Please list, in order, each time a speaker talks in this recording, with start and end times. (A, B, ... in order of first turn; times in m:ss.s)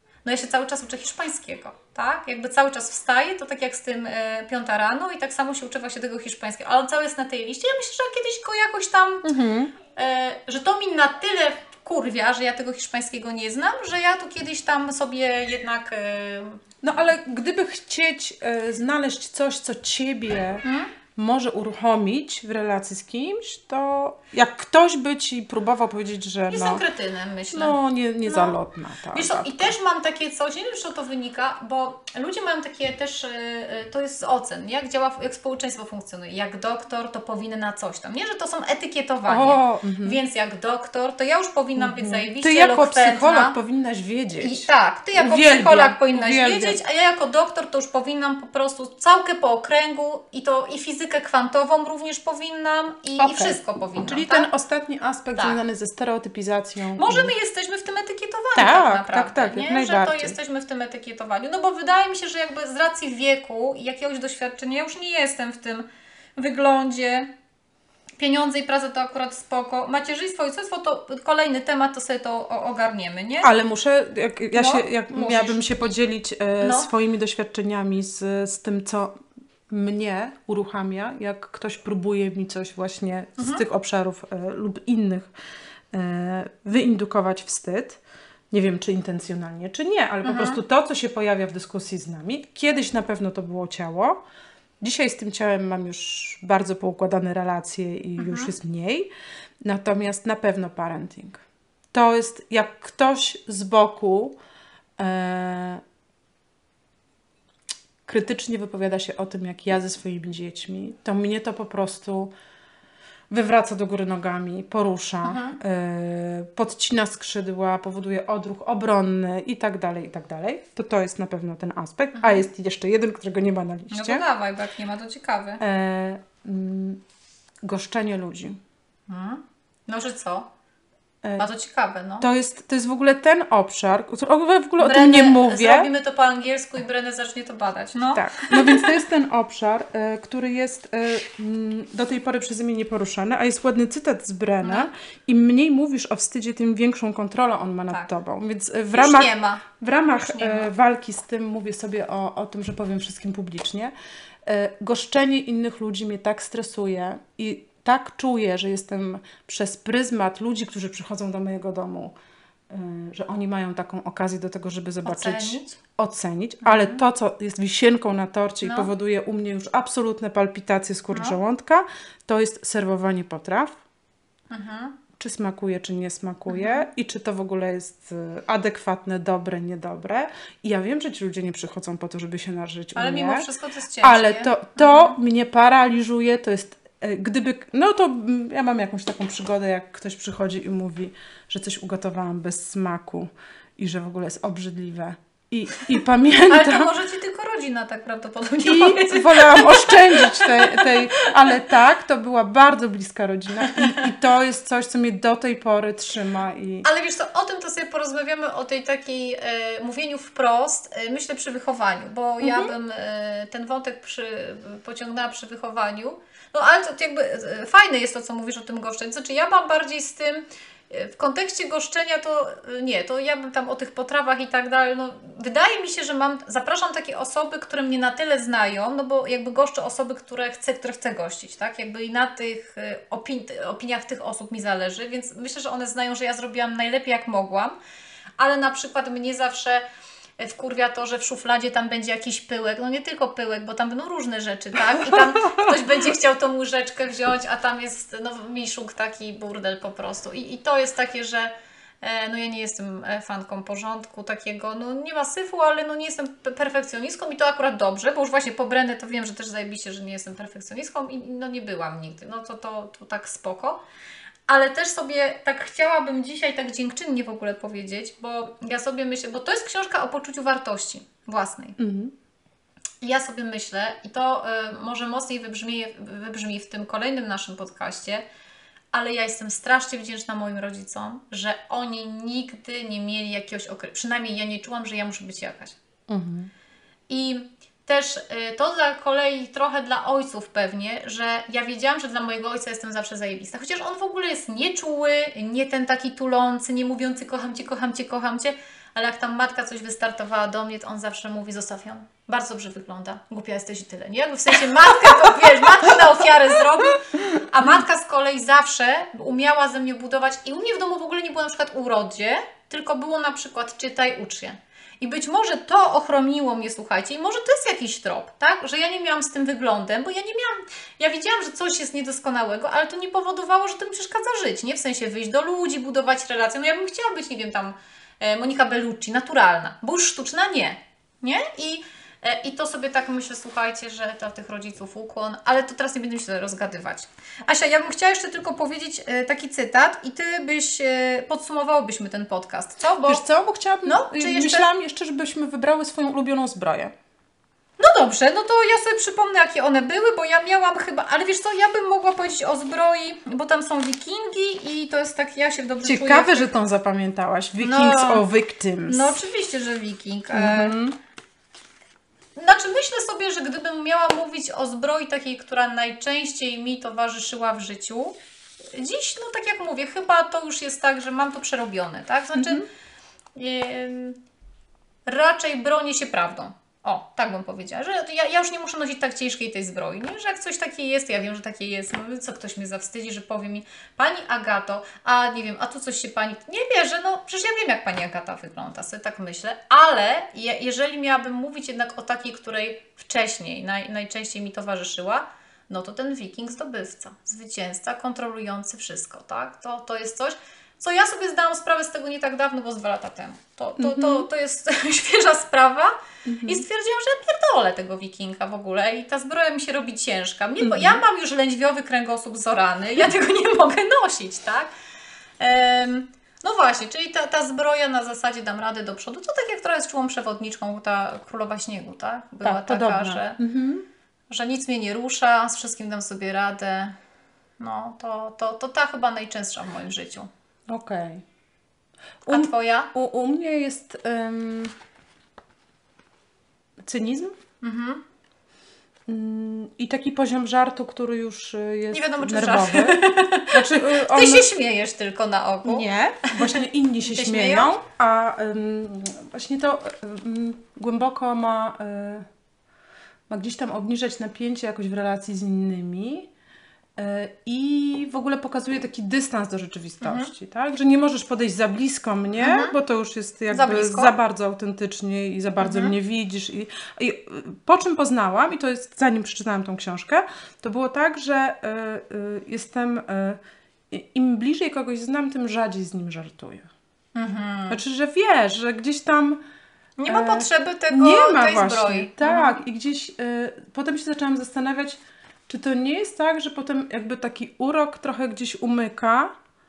0:00.2-0:09.3 A
0:09.2-0:09.7 B
0:09.9-0:16.7 A
0:16.8-0:26.8 B
0:20.6-0:20.9 A
0:26.5-0:28.6 A
0:27.5-0:29.7 B
0:29.1-0:43.6 A
0:39.2-0:40.2 B
0:41.8-0:46.8 B
0:44.4-0:54.5 A
0:53.2-0:57.3 B
0:57.0-1:05.8 A
0:58.5-1:00.4 B
1:06.4-1:07.3 A
1:08.2-1:13.5 A
1:13.4-1:19.2 B
1:14.5-1:15.7 A
1:16.6-1:16.9 A
1:19.7-1:25.3 B
1:23.4-1:23.6 A
1:25.9-1:28.0 B
1:28.5-1:34.2 B
1:30.2-1:30.6 A
1:34.8-1:39.1 B
1:38.2-1:38.5 A
1:39.6-1:41.4 B
1:41.9-1:44.4 B
1:45.0-1:45.8 B
1:48.0-1:52.3 B
1:53.3-2:04.2 B
1:55.2-1:55.6 A
2:02.2-2:02.4 A
2:03.9-2:05.6 A
2:05.6-2:07.0 B
2:07.6-2:08.6 B
2:09.1-2:10.5 A
2:11.4-2:12.2 A
2:12.2-2:15.9 B
2:14.8-2:18.9 A
2:18.1-2:33.9 B
2:24.6-2:24.9 A
2:28.9-2:30.7 A
2:34.4-2:42.1 B
2:42.7-2:53.8 B
2:45.0-2:45.8 A
2:46.6-2:47.0 A
2:48.6-2:48.9 A
2:51.1-2:51.4 A
2:54.5-2:55.0 A
2:55.2-3:03.5 B
2:56.5-2:56.9 A
3:02.9-3:05.2 A
3:04.0-3:16.9 B
3:16.4-3:21.6 A
3:18.6-3:26.8 B
3:23.6-3:24.1 A
3:26.8-3:57.7 A
3:32.4-3:32.7 B
3:58.4-3:59.8 A
4:00.4-4:23.8 A
4:05.0-4:05.6 B
4:24.5-4:31.8 A
4:31.8-4:32.1 B
4:33.0-4:38.2 A
4:38.9-4:45.8 A
4:46.1-4:46.5 B
4:47.1-5:43.2 A
5:43.0-5:46.9 B
5:43.8-5:44.6 A
5:47.8-5:56.5 A
5:55.8-5:59.2 B
5:57.6-5:58.2 A
5:58.8-6:00.7 A
6:00.3-6:01.0 B
6:02.4-6:08.1 A
6:08.7-6:12.6 A
6:12.4-6:12.6 B
6:13.3-6:14.2 A
6:15.1-6:54.7 A
6:43.8-6:44.3 B
6:46.2-6:46.6 B
6:50.6-6:51.0 B
6:55.4-7:03.4 A
7:02.4-7:03.8 B
7:04.3-7:06.9 A
7:07.6-7:10.3 A
7:10.7-7:11.2 B
7:12.2-7:12.9 A
7:12.3-7:14.7 B
7:16.8-7:17.4 B
7:17.6-7:18.0 A
7:19.1-7:24.5 B
7:21.9-7:27.7 A
7:25.6-7:32.2 B
7:33.3-7:36.3 B
7:37.0-7:56.7 B
7:40.0-7:40.3 A
7:42.4-7:42.7 A
7:43.5-7:44.1 A
7:45.6-7:45.9 A
7:57.1-7:57.8 A
7:57.7-7:59.4 B
8:00.0-8:02.6 A
8:00.1-8:09.3 B